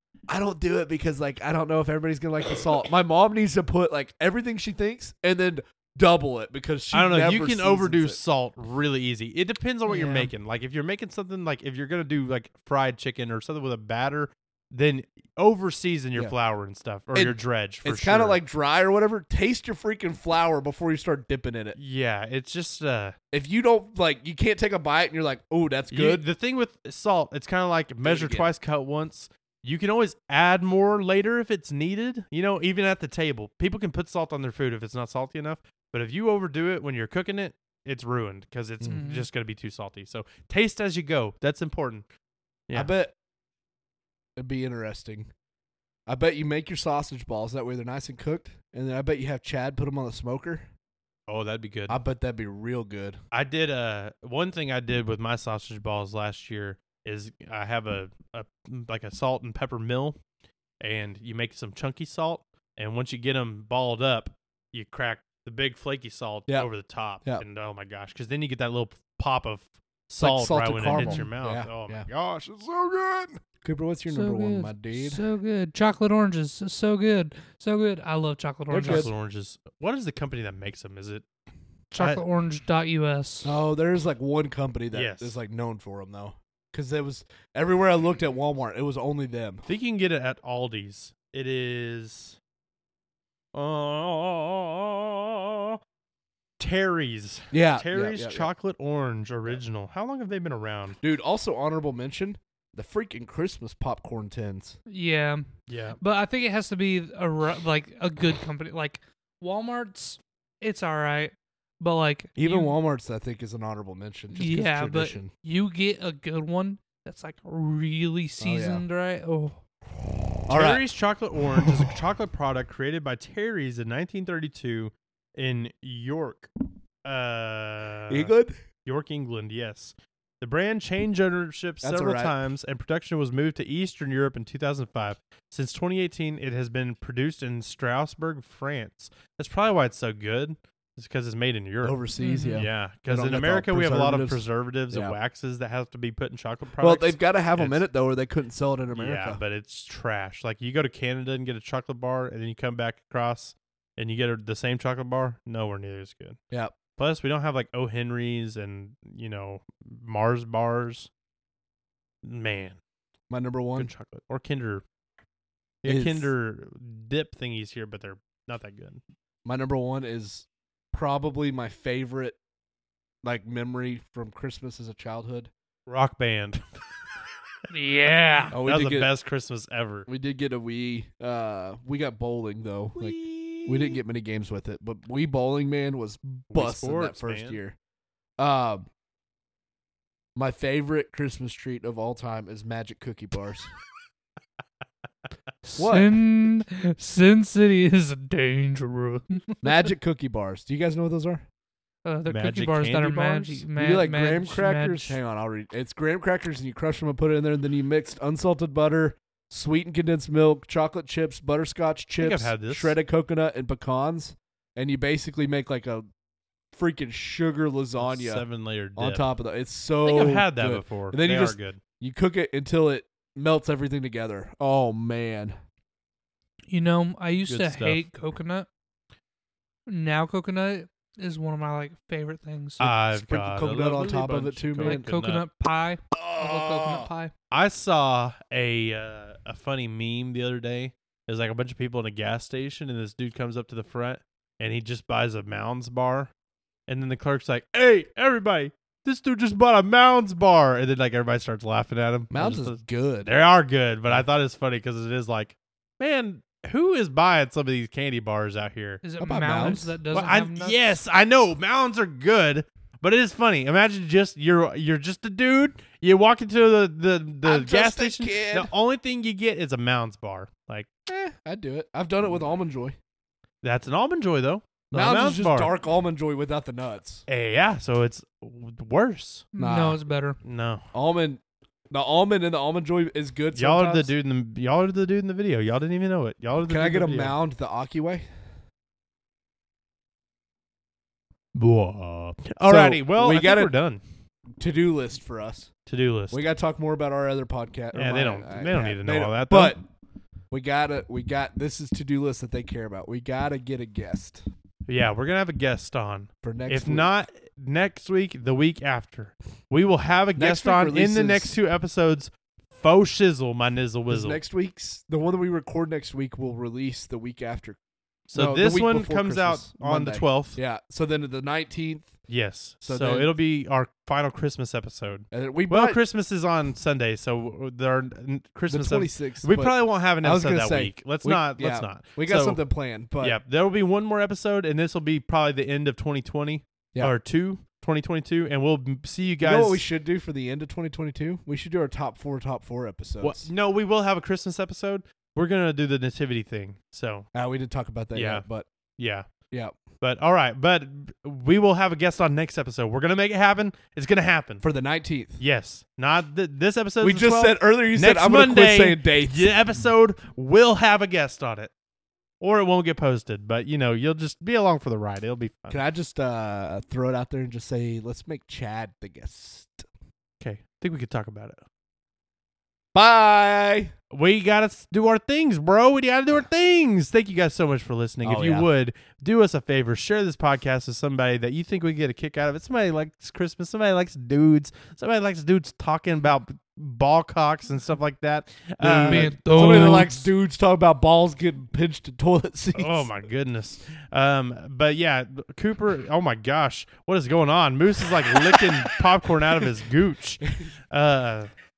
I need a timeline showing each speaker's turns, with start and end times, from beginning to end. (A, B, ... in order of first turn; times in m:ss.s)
0:00.3-0:08.2 A
0:06.9-0:18.4 B
0:09.9-0:10.3 C
0:17.1-0:21.8 A
0:21.8-0:23.2 B
0:23.3-0:26.2 A
0:25.9-0:42.1 B
0:28.0-0:28.5 A
0:38.8-0:39.3 C
0:42.7-0:43.1 A
0:44.4-0:45.3 A
0:46.1-0:50.7 A
0:51.3-0:52.0 B
0:51.9-0:53.2 A
0:53.3-1:00.2 B
1:00.8-1:12.1 B
1:10.2-1:15.2 A
1:10.9-1:11.2 C
1:14.1-1:19.1 C
1:18.7-1:19.1 A
1:18.8-1:21.2 B
1:21.9-1:23.5 C
1:23.4-1:29.6 A
1:24.9-1:25.4 B
1:29.7-1:32.4 B
1:33.5-1:35.8 B
1:36.6-1:41.0 B
1:37.5-1:38.5 A
1:41.0-1:44.8 A
1:44.9-1:45.4 C
1:45.7-1:46.0 B
1:46.0-1:52.7 C
1:52.4-1:55.3 A
1:54.3-1:59.6 C
1:58.4-1:58.8 A
2:00.4-2:00.9 A
2:00.5-2:06.5 B
2:01.6-2:01.9 A
2:07.0-2:08.3 B
2:08.1-2:08.6 A
2:08.8-2:22.0 B
2:11.8-2:12.4 A
2:21.8-2:25.2 A
2:22.2-2:22.6 C
2:22.5-2:27.9 B
2:26.8-2:29.4 A
2:28.9-2:36.4 B
2:37.0-2:41.1 B
2:42.2-2:42.8 B
2:43.3-2:43.9 A
2:43.8-2:44.8 B
2:45.8-2:49.0 B
2:45.9-2:46.3 A
2:49.4-2:52.4 A
2:53.2-2:55.5 A
2:55.9-2:56.6 B
2:57.7-2:58.6 C
2:58.5-2:59.1 A
2:58.5-3:00.1 B
3:00.1-3:07.8 A
3:03.0-3:04.0 B
3:06.5-3:07.6 B
3:08.4-3:08.9 A
3:10.4-3:13.7 A
3:15.6-3:19.8 C
3:15.8-3:16.2 A
3:19.6-3:21.4 A
3:22.0-3:25.2 C
3:22.3-3:23.6 B
3:23.8-3:36.1 A
3:32.2-3:33.0 B
3:36.7-3:45.6 A
3:38.0-3:39.3 B
3:40.0-3:41.8 B
3:46.7-3:48.7 C
3:47.5-3:48.0 B
3:49.9-3:52.9 C
3:52.8-3:55.4 B
3:53.1-3:55.1 A
3:54.8-3:57.3 C
3:56.1-3:57.1 A
3:57.5-4:06.3 B
4:06.9-4:19.0 B
4:12.3-4:13.3 A
4:19.0-4:20.8 C
4:19.2-4:20.0 A
4:20.1-4:30.9 B
4:27.4-4:28.7 A
4:31.1-4:33.0 A
4:33.6-4:35.7 B
4:34.9-4:37.2 A
4:37.3-4:39.5 B
4:39.5-4:40.4 C
4:39.6-4:40.0 A
4:40.4-4:40.9 B
4:40.9-4:44.1 A
4:43.6-4:47.4 B
4:46.7-4:48.2 A
4:51.5-4:54.0 B
4:52.7-4:53.7 A
4:54.6-4:55.7 A
4:55.9-4:56.4 B
4:56.3-4:59.8 A
4:57.9-4:59.8 B
5:00.5-5:04.4 A
5:04.9-5:14.4 B
5:06.4-5:07.1 A
5:10.4-5:11.6 A
5:14.1-5:17.8 A
5:18.3-5:20.6 B
5:18.4-5:22.2 A
5:22.3-5:32.6 B
5:22.8-5:23.3 A
5:25.3-5:26.0 A
5:28.7-5:33.4 A
5:33.2-5:39.8 B
5:39.4-5:43.5 A
5:43.2-5:47.3 B
5:47.3-5:48.7 A
5:48.1-5:48.4 B
5:49.0-5:49.3 B
5:50.0-5:54.6 B
5:54.6-5:55.4 A
5:55.4-6:01.7 B
5:57.0-5:59.5 A
6:02.4-6:05.8 B
6:05.7-6:09.9 A
6:10.4-6:11.6 B
6:13.0-6:13.9 A
6:14.1-6:30.1 B
6:18.2-6:18.7 A
6:28.8-6:33.1 A
6:29.0-6:30.3 C
6:32.8-6:41.5 B